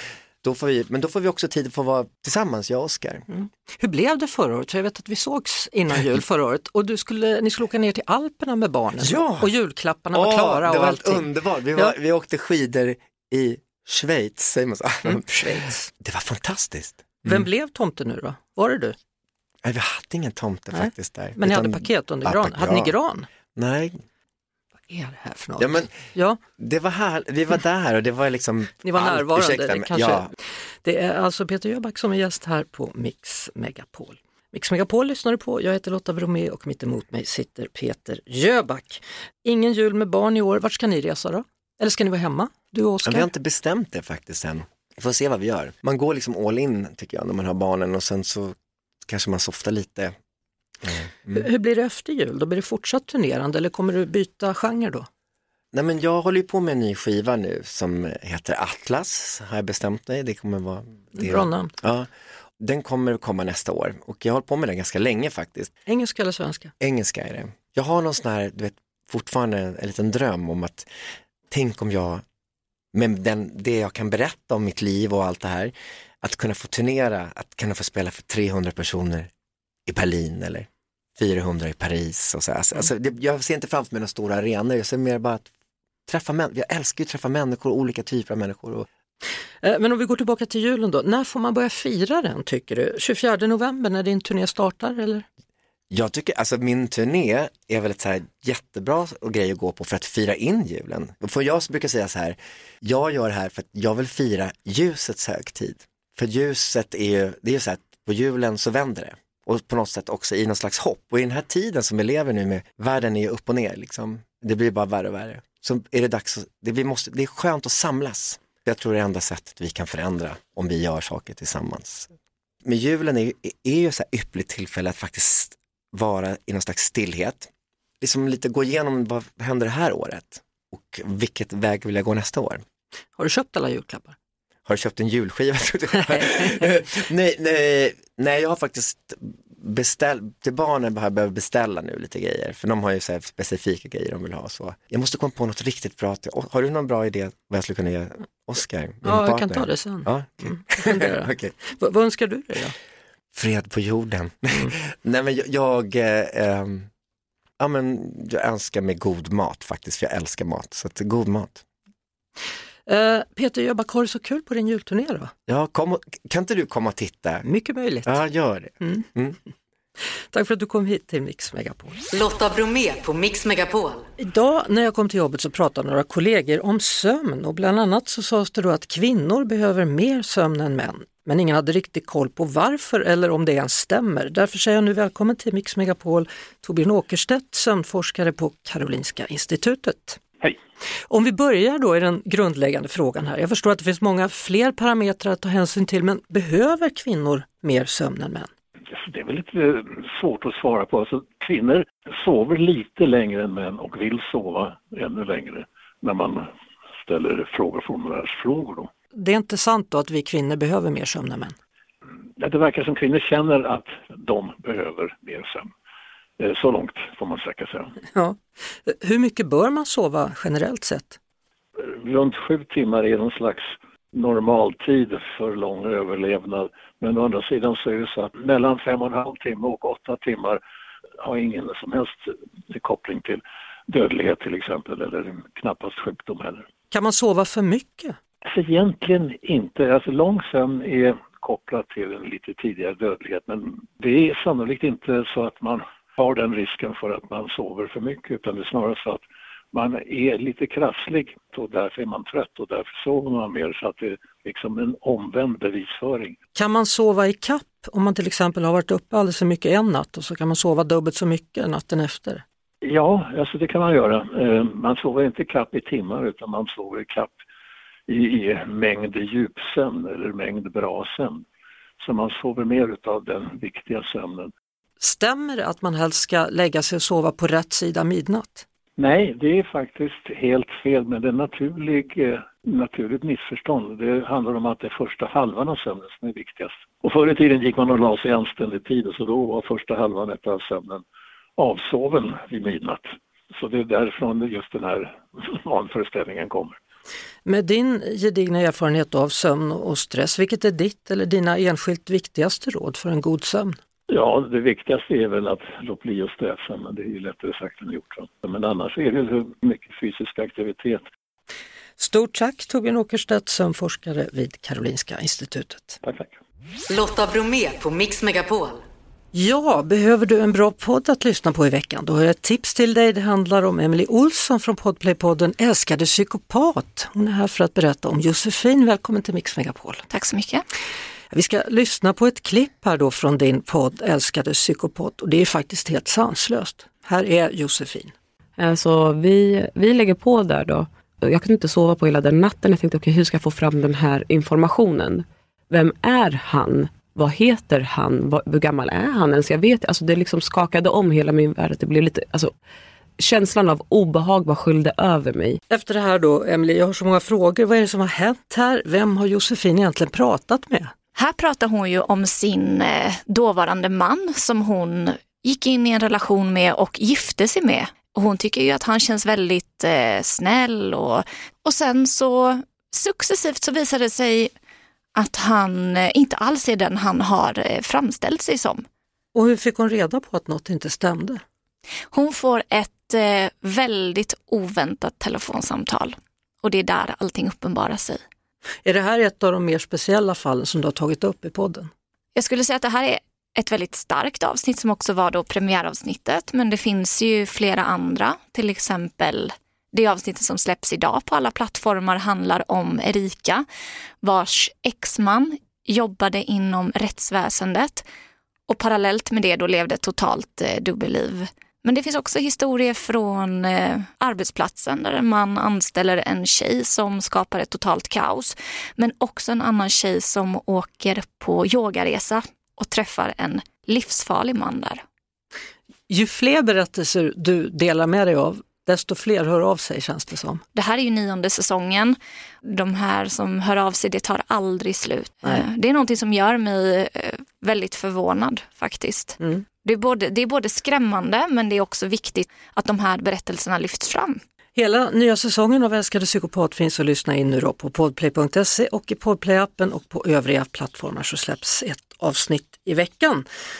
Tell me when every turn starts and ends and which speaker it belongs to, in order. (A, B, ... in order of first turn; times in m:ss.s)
0:00.4-0:03.2 A
0:03.3-0:11.9 B
0:09.0-0:09.5 A
0:10.1-0:17.5 A
0:15.0-0:15.9 B
0:17.2-0:19.0 B
0:19.6-0:23.0 A
0:20.7-0:23.3 B
0:23.6-0:24.0 A
0:24.9-0:26.4 B
0:25.6-0:26.0 A
0:26.6-0:30.3 A
0:28.8-0:30.3 B
0:30.8-0:43.3 B
0:43.0-0:48.5 A
0:49.1-0:50.1 A
0:50.8-0:51.5 A
0:51.3-0:55.1 B
0:55.7-1:02.1 A
1:01.1-1:01.7 B
1:02.6-1:05.7 A
1:05.8-1:06.7 B
1:06.8-1:10.9 A
1:11.5-1:12.2 A
1:12.9-1:19.3 A
1:19.9-1:25.5 A
1:26.1-1:28.8 A
1:29.6-1:35.2 B
1:35.9-2:02.1 A
2:02.6-2:07.5 A
2:08.0-2:12.6 A
2:13.2-2:14.2 B
2:14.6-2:31.5 A
2:29.0-2:32.7 B
2:33.3-2:36.9 A
2:37.6-2:41.6 A
2:42.8-2:45.3 B
2:45.5-2:47.4 A
2:47.4-2:48.2 B
2:48.0-2:49.4 A
2:48.8-2:49.0 B
2:50.3-2:52.0 B
2:52.1-2:54.0 C
2:54.2-3:10.2 B
3:11.1-3:18.5 B
3:18.9-3:26.4 D
3:27.0-3:28.9 D
3:29.1-3:31.6 B
3:32.4-3:35.7 D
3:36.4-3:37.9 D
3:38.1-3:41.2 B
3:41.8-3:50.6 D
3:51.2-3:56.6 D
3:56.9-3:58.2 B
3:58.5-4:16.4 D
4:16.5-4:22.4 B
4:22.8-4:27.4 D
4:28.1-4:31.4 D
4:32.0-4:34.5 D
4:35.0-4:38.6 B
4:39.0-4:51.0 D
4:51.6-4:56.8 D
4:57.4-5:03.8 B
5:04.1-5:11.0 D
5:12.0-5:16.0 B
5:16.0-5:16.3 D
5:16.9-5:18.8 C
5:19.3-5:30.0 B
5:30.1-5:30.6 E
5:31.3-5:38.1 B
5:38.6-5:52.5 F
5:53.2-5:55.6 F
5:55.7-6:00.9 B
6:01.2-6:14.5 E
6:15.2-6:18.8 E
6:19.3-6:21.4 B
6:22.1-6:28.2 E
6:28.8-6:31.9 B
6:32.3-6:43.6 E
6:44.2-6:48.0 E
6:48.7-7:05.0 E
7:06.1-7:10.6 B
7:10.7-7:24.4 E
7:24.7-7:33.4 B